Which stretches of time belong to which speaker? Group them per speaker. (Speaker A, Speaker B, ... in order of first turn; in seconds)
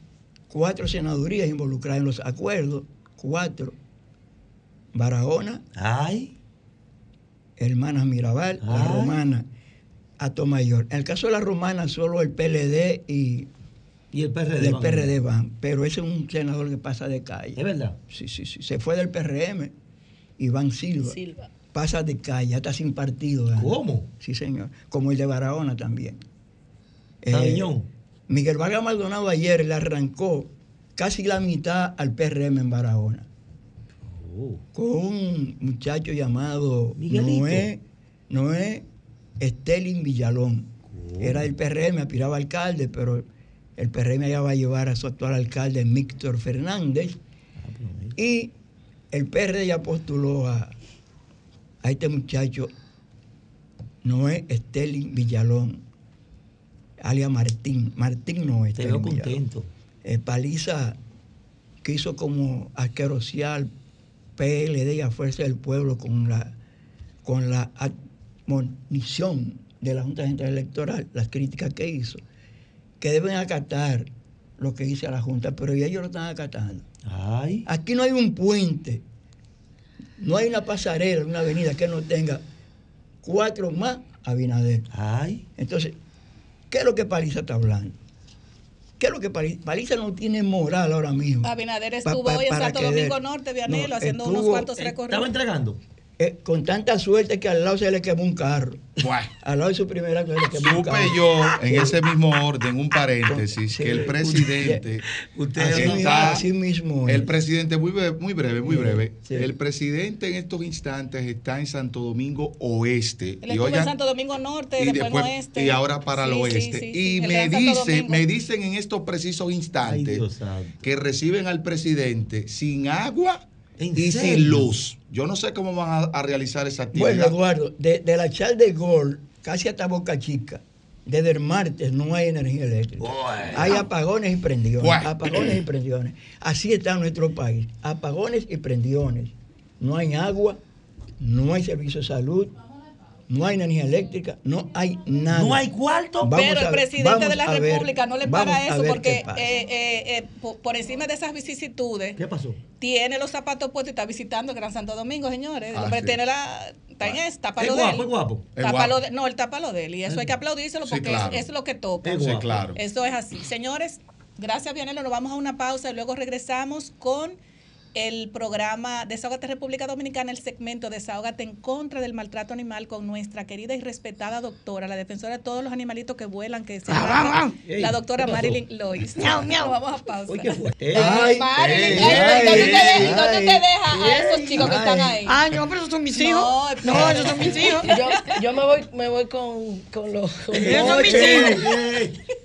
Speaker A: 0.5-3.8, 4.9-5.6, 7.6-9.5, 10.2-13.5, 14.6-19.7, 20.4-21.2, 21.7-26.2, 27.2-27.8, 28.3-33.3, 34.7-38.9, 39.4-43.2, 43.8-47.2, 48.1-48.5, 49.1-50.7, 51.8-52.7, 54.0-55.8, 57.0-59.4, 60.0-61.0, 61.8-63.7, 64.4-66.5, 67.2-67.9, 68.5-72.2, 73.0-76.8, 77.7-79.0, 80.2-82.4, 83.2-84.9, 85.5-86.0, 86.7-88.0, 89.0-91.5, 92.0-94.7, 96.2-98.9, 99.4-102.0, 103.2-104.8, 105.5-107.3, 108.6-109.5, 126.9-140.6, 141.2-142.6, 143.3-145.7, 146.2-149.6, 180.9-183.7, 184.5-185.2
Speaker B: 5.7-6.3, 8.6-9.2, 14.1-15.1, 17.6-17.9, 23.5-24.1, 27.3-27.9, 34.0-34.6, 37.0-37.7, 40.9-41.4, 47.6-48.1, 58.8-59.7, 77.0-77.7, 84.9-85.4, 94.8-95.8, 105.3-106.4, 119.8-120.8, 123.8-124.7, 133.0-133.8, 145.3-146.3, 152.2-152.6, 157.6-158.5, 160.1-160.3, 162.0-162.6, 177.6-178.6, 180.3-183.2, 183.9-184.9, 190.5-192.2
Speaker C: 91.4-95.3, 113.4-118.2, 146.3-152.2, 152.8-162.2, 162.7-167.3, 167.9-185.4, 186.1-188.3, 190.7-191.7
Speaker D: 99.0-99.3, 100.5-105.0, 105.6-106.4, 107.0-113.9, 114.8-120.3, 120.8-123.4, 123.9-127.3, 134.8-135.1, 155.7-156.2, 158.5-159.0, 160.8-161.5, 162.1-162.8, 181.6-182.4
Speaker E: 176.9-177.6, 179.2-179.7, 185.2-188.0, 190.6-191.7
Speaker F: 187.8-191.5